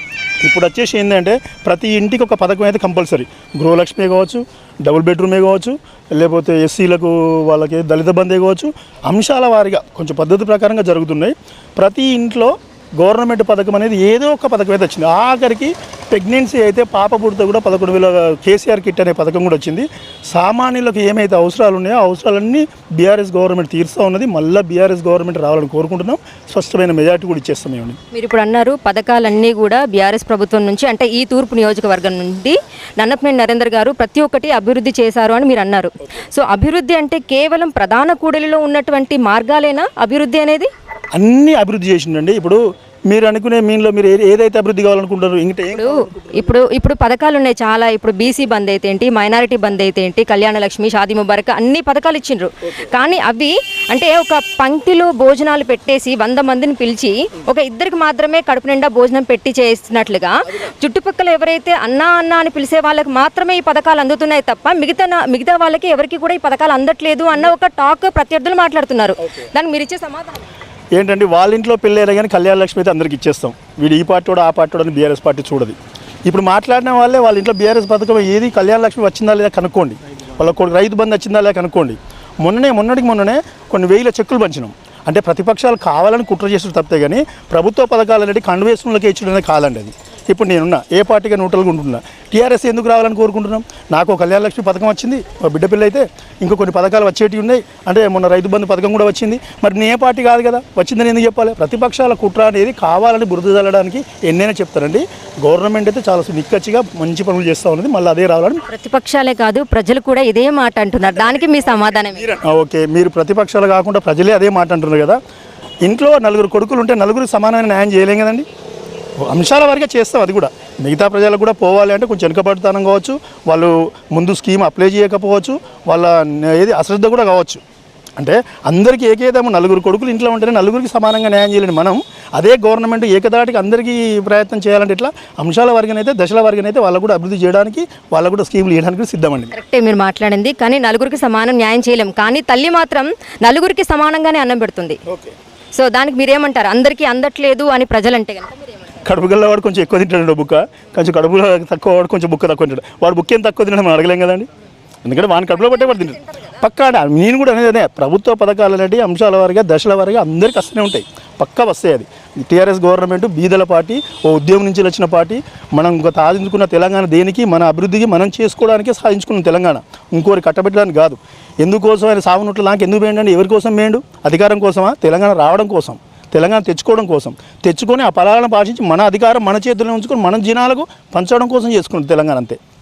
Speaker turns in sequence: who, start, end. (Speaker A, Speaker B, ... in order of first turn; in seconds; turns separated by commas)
Speaker A: 0.4-28.0, Speaker B: 28.1-40.7, Speaker A: 41.1-46.6, Speaker B: 45.7-70.4, Speaker A: 70.9-108.6, Speaker B: 108.7-112.3, Speaker A: 112.1-115.2, Speaker A: 115.8-118.5, Speaker A: 119.2-127.6, Speaker A: 128.2-139.5, Speaker B: 139.5-145.0, Speaker A: 145.1-145.3, Speaker B: 145.7-149.0, Speaker A: 149.0-154.5, Speaker A: 155.0-182.6, Speaker B: 155.6-156.6